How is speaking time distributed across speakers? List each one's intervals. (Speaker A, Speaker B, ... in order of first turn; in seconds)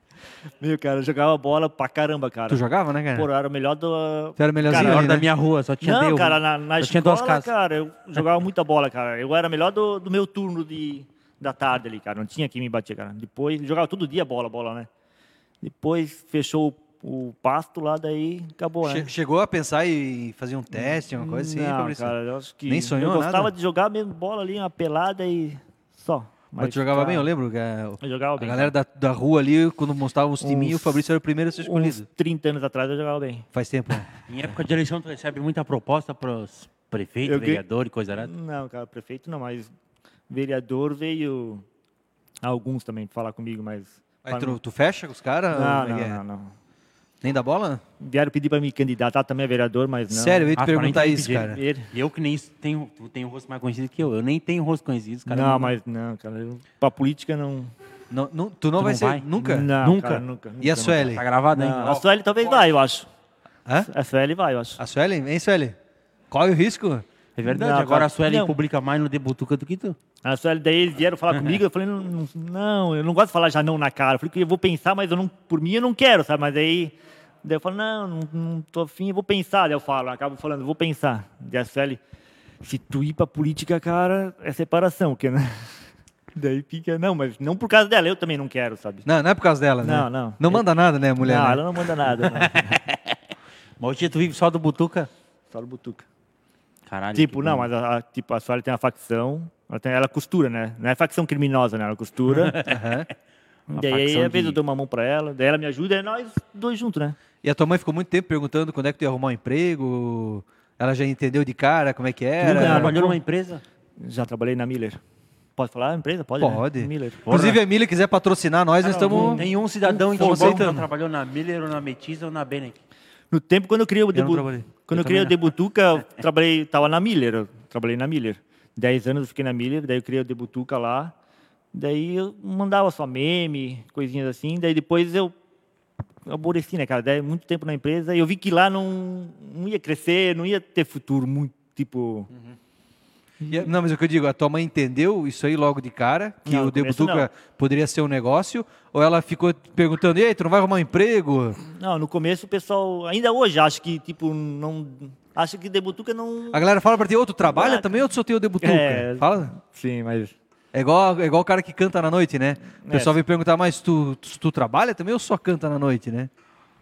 Speaker A: 0.6-5.2, 5.8-14.9, 15.6-19.1, 20.7-27.3, 28.0-28.7, 30.4-31.0, 31.6-33.5, 37.2-37.6, 38.1-39.7, 40.3-41.6, 42.4-44.6, 45.5-46.5, 48.0-50.5, 51.3-51.9, 55.3-57.7, 59.4-63.1, 63.8-64.8, 67.5-68.5, 70.2-82.0, 82.6-85.8, 86.3-89.1, 89.8-90.6, 91.2-92.8, 95.5-96.0, 97.1-102.5, 103.7-107.2, 112.4-113.2, 114.0-115.0, 115.6-117.2, 118.9-120.7, 123.3-131.1, 131.7-135.3, 136.2-142.3, 143.4-143.7, 146.4-147.3, 151.7-156.7, 157.5-157.9, 158.6-160.3, 162.8-163.2
Speaker B: 2.5-3.3, 4.4-5.2, 18.8-23.5, 26.6-32.0, 33.5-34.1, 44.2-46.2, 47.2-47.8, 50.1-51.6, 58.1-59.7, 60.6-61.2, 64.8-65.8, 66.3-67.0, 89.0-91.6, 102.6-103.1, 107.4-113.0, 116.4-119.4, 120.1-120.9, 124.1-124.7, 143.4-151.6, 156.5-159.5, 160.7-166.3
Speaker C: 4.7-7.5, 34.3-38.3, 50.6-55.7, 58.8-60.2, 61.1-62.5, 67.4-70.0, 92.3-93.2, 93.8-95.1, 96.9-97.7, 102.3-103.0, 103.7-104.6, 112.4-113.6, 117.2-117.6, 118.8-122.8, 124.9-125.3